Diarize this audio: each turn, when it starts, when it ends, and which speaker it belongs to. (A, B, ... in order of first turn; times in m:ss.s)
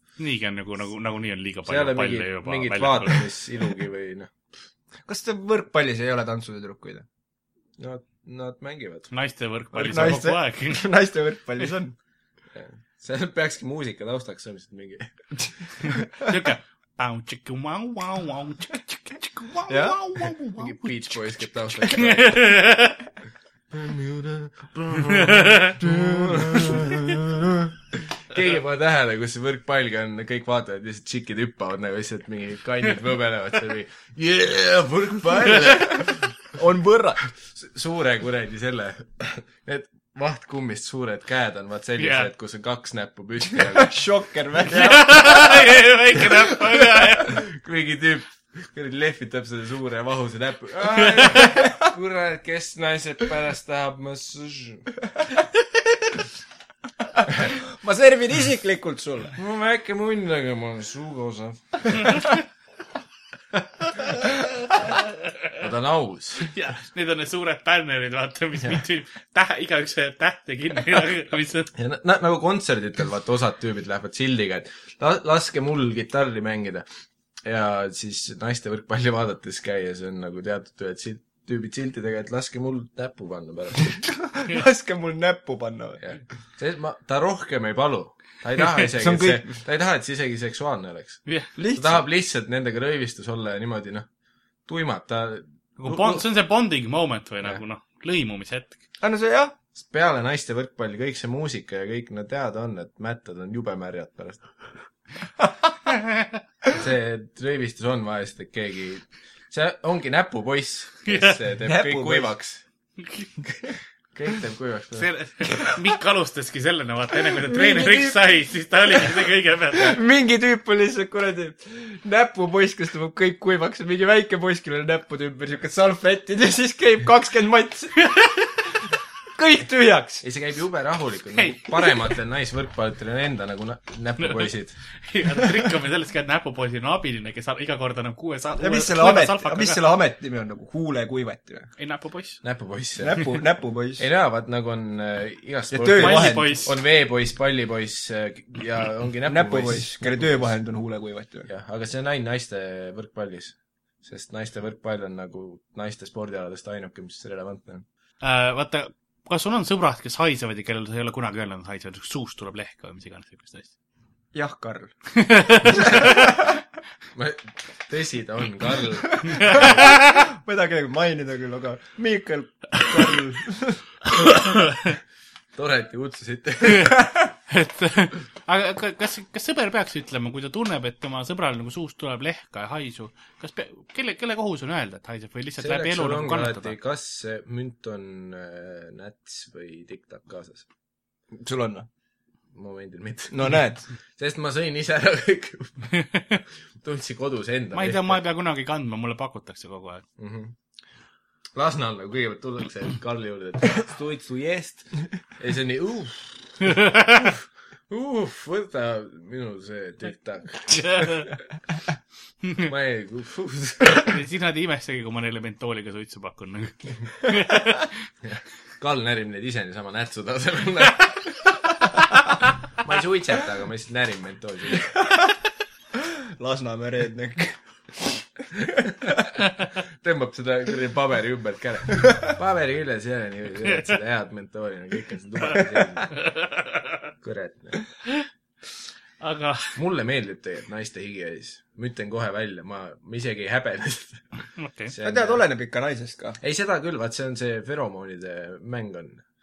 0:00.2-0:03.3 A
0:01.6-0:04.3 B
0:05.0-0:07.0 C
0:07.8-0:09.1 B
0:09.1-0:10.8 A
0:09.7-0:12.0 C
0:12.5-0:15.1 B
0:16.2-0:20.9 A
0:19.7-0:20.3 C
0:20.6-0:22.6 B
0:21.8-0:23.0 A
0:23.7-0:36.6 B
0:25.2-0:25.8 A
0:25.8-0:27.7 C
0:36.6-0:37.2 C
0:37.3-0:44.0 B
0:42.0-0:42.3 A
0:43.6-0:45.4 C
0:44.7-0:47.4 A
0:47.1-0:54.9 B
0:57.5-0:59.4 C
0:59.4-1:02.3 B
1:05.6-1:06.5 B
1:06.4-1:11.7 A
1:11.7-1:16.8 B
1:17.4-1:24.1 B
1:24.0-1:26.0 C
1:26.0-1:34.1 B
1:28.9-1:29.5 C
1:31.6-1:32.0 C
1:34.6-1:36.2 B
1:35.8-1:38.8 A
1:39.0-1:39.5 C
1:39.8-1:44.5 B
1:46.7-1:52.6 B
1:51.0-1:51.4 A
1:51.6-1:52.3 C
1:53.0-1:53.3 A
1:54.1-1:55.1 B
1:55.0-2:00.0 A
1:57.3-1:58.2 C
1:59.7-2:08.1 C
2:09.3-2:10.2 C
2:10.2-2:14.8 B
2:11.4-2:11.9 A
2:14.2-2:19.8 A
2:18.6-2:21.7 C
2:21.8-2:22.4 A
2:22.4-2:23.4 B
2:23.0-2:24.0 C
2:24.0-2:30.5 B
2:25.7-2:26.6 C
2:26.0-2:26.7 A
2:29.2-2:31.5 C
2:31.4-2:37.8 B
2:38.2-2:43.7 A
2:44.3-2:44.9 C
2:45.1-2:46.3 A
2:45.7-2:46.6 C
2:47.1-2:49.9 B
2:49.2-2:53.8 C
2:49.2-2:50.2 A
2:54.4-2:54.8 A
2:55.5-2:57.1 B
2:56.7-2:57.0 A
2:57.5-3:06.7 A
3:05.6-3:10.6 B
3:11.4-3:11.9 C
3:12.5-3:15.9 B
3:13.3-3:13.9 C
3:16.0-3:16.4 A
3:16.8-3:18.2 B
3:17.7-3:20.0 A
3:20.2-3:20.5 B
3:21.5-3:31.3 B
3:30.7-3:31.3 A
3:32.6-3:34.2 B
3:34.0-3:38.0 A
3:38.2-3:41.6 B
3:42.8-3:45.0 B
3:45.9-3:49.2 C
3:49.8-3:56.2 B
3:56.1-3:57.0 A
3:57.2-3:57.8 B
3:59.2-3:59.8 A
3:59.8-4:05.4 B
4:04.6-4:04.9 A
4:05.0-4:06.4 C
4:06.4-4:09.2 B